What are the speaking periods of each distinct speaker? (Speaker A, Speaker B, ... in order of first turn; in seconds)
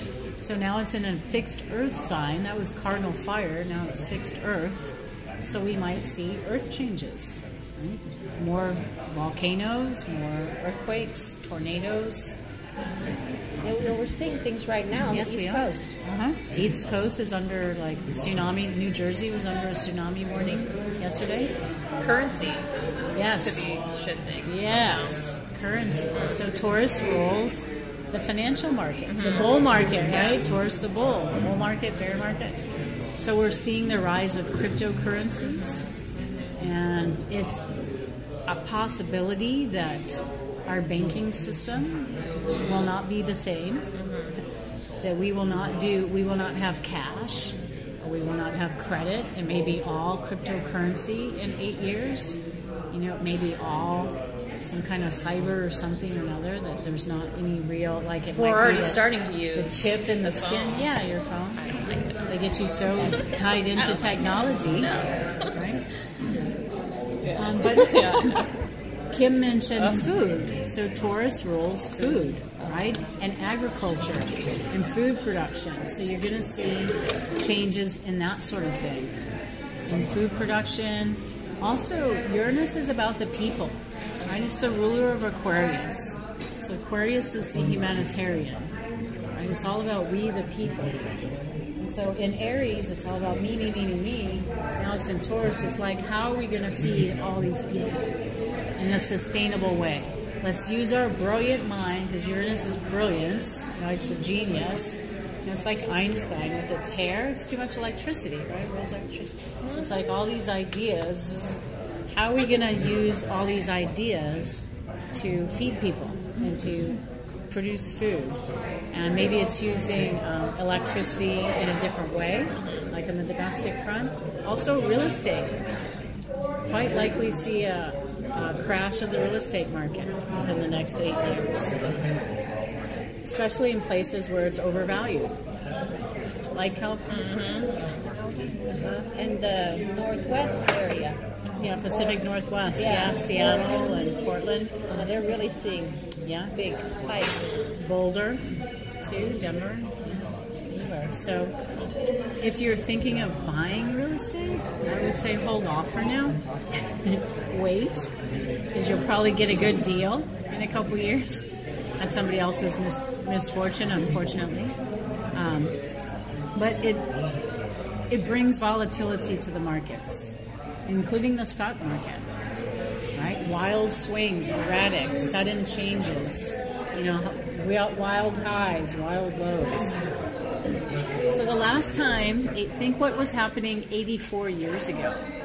Speaker A: 0.4-12.4, 15.1-21.5, 23.1-23.7, 24.4-32.6, 33.2-35.9, 36.6-37.6, 38.5-43.8, 45.0-52.4, 52.9-61.7, 62.3-64.9, 65.5-65.8, 67.4-68.4, 69.1-79.1, 79.9-88.7, 89.3-91.0, 91.8-98.1, 98.8-117.0, 117.5-118.4, 118.9-125.5, 126.7-131.7, 133.2-135.3, 136.5-137.1, 138.7-139.1, 141.6-144.7, 146.2-146.5, 147.8-148.4, 149.0-149.9, 150.7-151.5, 152.4-156.4, 157.0-158.1, 158.7-161.4, 162.0-164.8, 165.3-165.7, 166.6-167.1, 168.1-170.3, 170.9-172.2, 173.2-180.0, 181.3-185.2
Speaker B: 13.6-15.9, 139.1-141.2, 141.9-142.2, 142.8-144.1, 144.9-146.0, 146.5-147.6
Speaker C: 22.0-25.2, 29.1-30.4, 36.2-36.5, 43.9-44.3, 58.3-62.4, 63.7-65.5, 67.2-68.4, 69.8-70.1, 72.0-72.3, 122.5-122.8, 137.1-137.7